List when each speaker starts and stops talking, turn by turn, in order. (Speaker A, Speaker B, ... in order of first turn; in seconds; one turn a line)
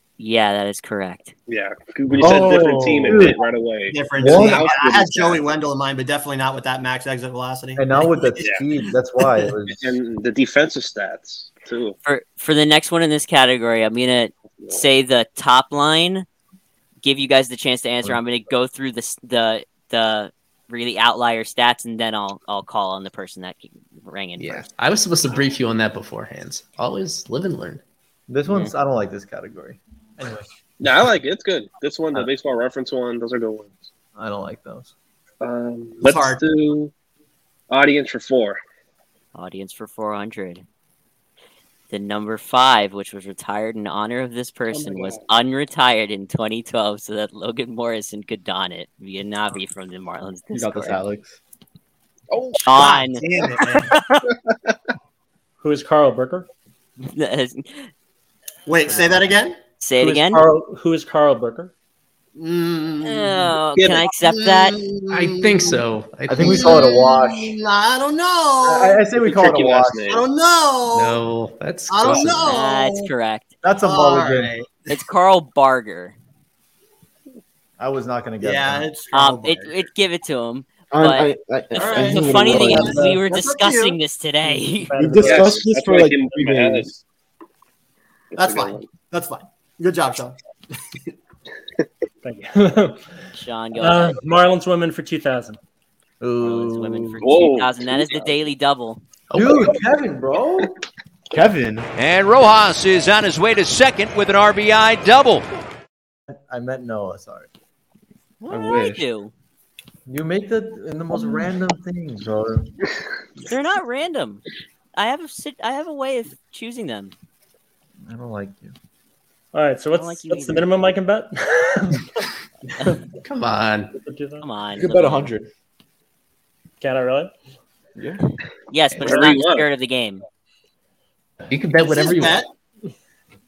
Speaker A: 0.2-1.3
Speaker B: 1.5-5.5
Speaker C: 2.2-3.4
Speaker D: 3.9-8.1
Speaker C: 4.2-4.7
Speaker C: 7.8-10.0
Speaker B: 9.8-12.0
Speaker A: 12.0-16.3
Speaker A: 17.0-24.7
Speaker E: 24.4-27.8
Speaker C: 28.3-30.5
Speaker B: 30.8-33.9
Speaker C: 34.2-34.9
Speaker B: 35.4-36.9
Speaker D: 36.0-36.4
Speaker B: 37.7-38.6
Speaker A: 39.4-40.6
Speaker A: 41.9-51.0
Speaker B: 44.7-45.2
Speaker F: 50.5-51.4
Speaker A: 52.6-53.2
Speaker D: 52.6-54.0
Speaker A: 53.8-54.2
Speaker G: 55.6-56.5
Speaker A: 57.0-57.9
Speaker D: 58.7-59.6
Speaker A: 59.8-60.5
Speaker G: 60.0-61.7
Speaker D: 62.4-63.5
Speaker A: 63.0-64.8
Speaker B: 63.8-64.1
Speaker D: 64.2-65.8
Speaker E: 65.1-66.8
Speaker C: 66.3-67.5
Speaker D: 66.3-69.1
Speaker C: 68.6-70.2
Speaker B: 69.2-70.2
Speaker D: 70.1-71.2
Speaker E: 70.9-72.5
Speaker D: 71.9-73.1
Speaker A: 72.5-73.5
Speaker C: 73.6-74.5
Speaker D: 73.8-75.0
Speaker A: 74.9-76.2
Speaker C: 77.8-78.9
Speaker D: 78.4-79.8
Speaker A: 79.1-85.0
Speaker F: 80.9-83.1
Speaker D: 81.8-84.0
Speaker C: 82.8-83.2
Speaker G: 84.6-85.6
Speaker F: 85.0-86.9
Speaker B: 85.2-87.0
Speaker D: 88.3-90.4
Speaker B: 88.4-88.9
Speaker G: 92.2-93.1
Speaker A: 93.3-94.2
Speaker G: 93.8-95.6
Speaker C: 96.2-97.3
Speaker A: 96.4-99.0
Speaker B: 97.2-98.3
Speaker E: 99.3-99.7
Speaker C: 99.3-100.7
Speaker F: 101.3-101.9
Speaker H: 102.0-105.5
Speaker C: 106.3-107.5
Speaker A: 108.4-109.3
Speaker F: 108.5-109.0
Speaker C: 110.1-112.7
Speaker A: 113.4-114.4
Speaker A: 115.0-117.1
Speaker C: 118.0-118.8
Speaker G: 119.5-122.3
Speaker A: 119.9-120.7
Speaker E: 123.2-124.0
Speaker G: 124.0-124.5
Speaker A: 124.4-125.3
Speaker F: 124.8-125.5
Speaker G: 126.8-127.3
Speaker F: 128.0-128.2
Speaker A: 128.7-130.2
Speaker B: 129.0-129.7
Speaker E: 131.5-132.4
Speaker D: 131.8-132.5